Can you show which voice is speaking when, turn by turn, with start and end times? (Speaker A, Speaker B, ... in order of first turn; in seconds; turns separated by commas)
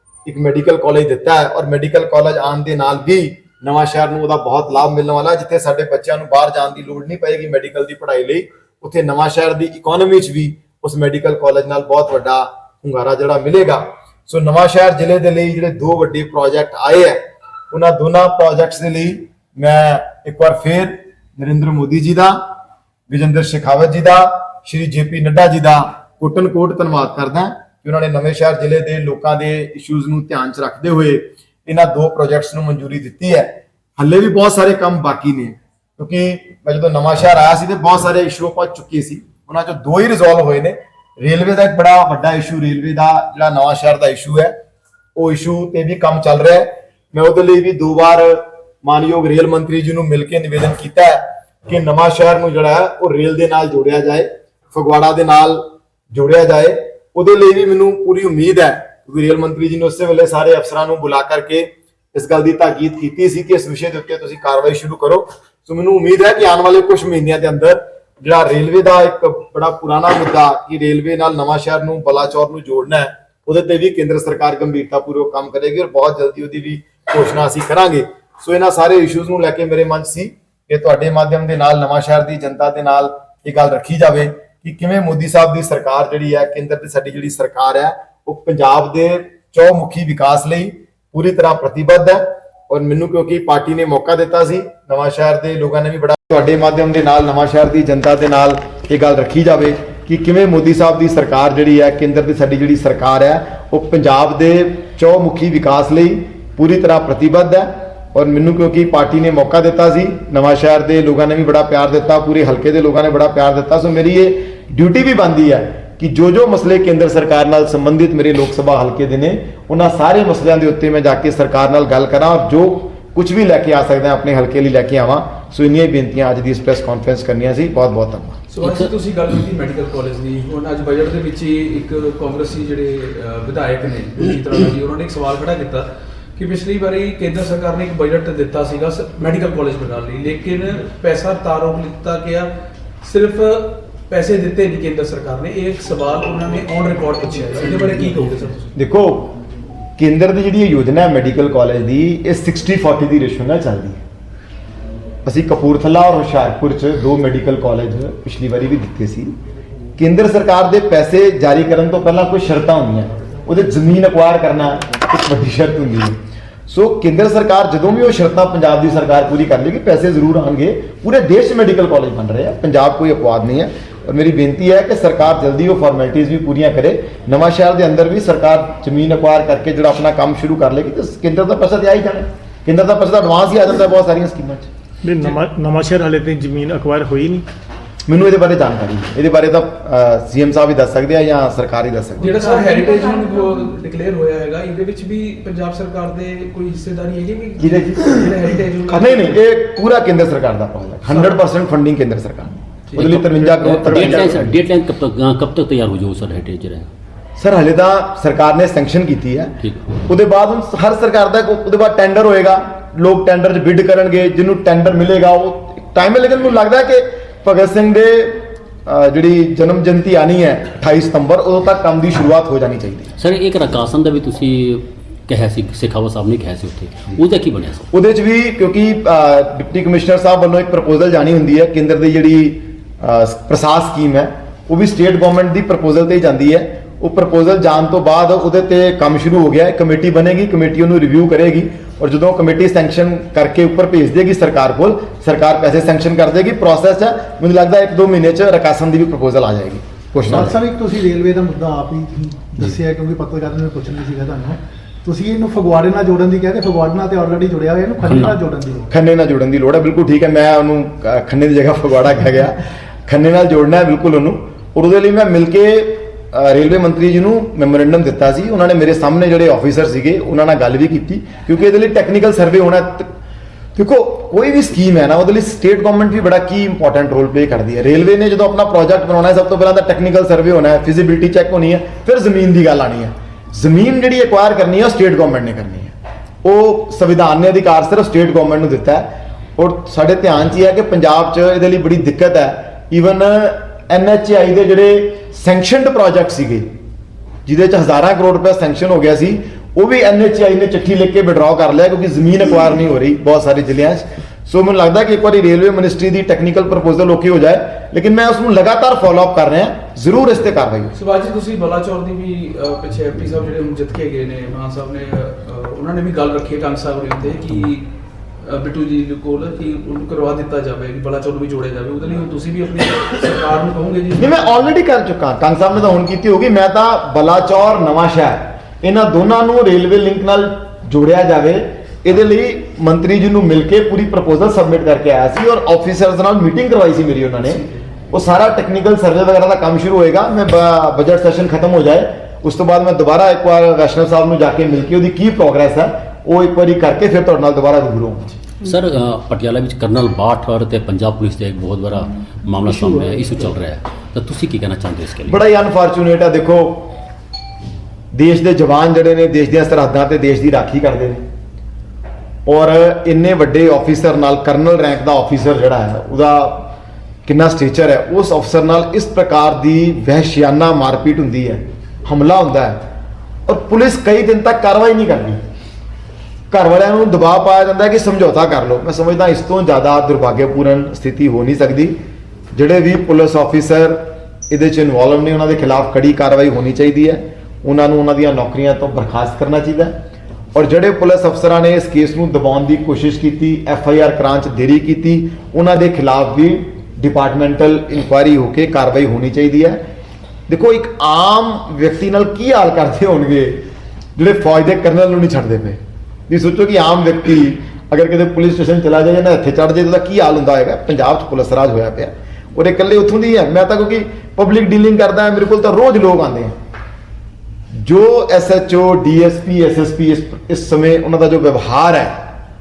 Speaker A: 0.2-17.2, Speaker A: 17.7-22.4, Speaker A: 23.1-44.5, Speaker A: 45.1-128.4, Speaker B: 128.5-142.5, Speaker B: 143.0-148.7, Speaker A: 148.7-149.3, Speaker A: 150.0-154.0, Speaker A: 155.2-159.3, Speaker A: 160.0-166.2, Speaker A: 166.7-184.7, Speaker C: 185.0-187.4, Speaker A: 188.1-192.3, Speaker B: 192.2-199.4, Speaker A: 197.6-198.3, Speaker A: 198.9-204.5, Speaker B: 201.1-201.4, Speaker B: 202.9-203.2, Speaker D: 203.0-206.9, Speaker A: 207.4-209.5, Speaker A: 210.1-223.1, Speaker D: 223.2-227.9, Speaker A: 227.9-250.6, Speaker E: 250.4-258.9, Speaker D: 258.1-258.4, Speaker A: 258.9-273.1, Speaker A: 273.8-296.6, Speaker A: 297.4-310.9, Speaker B: 310.9-317.9, Speaker B: 318.4-324.6, Speaker A: 324.2-348.3, Speaker D: 348.6-355.4, Speaker A: 355.3-356.9, Speaker A: 358.1-361.2, Speaker A: 362.4-366.7, Speaker A: 367.2-372.8, Speaker A: 373.5-375.4, Speaker A: 376.5-381.9, Speaker A: 382.5-389.9, Speaker A: 390.5-399.8, Speaker A: 400.5-403.6, Speaker A: 404.2-416.5, Speaker A: 417.8-422.2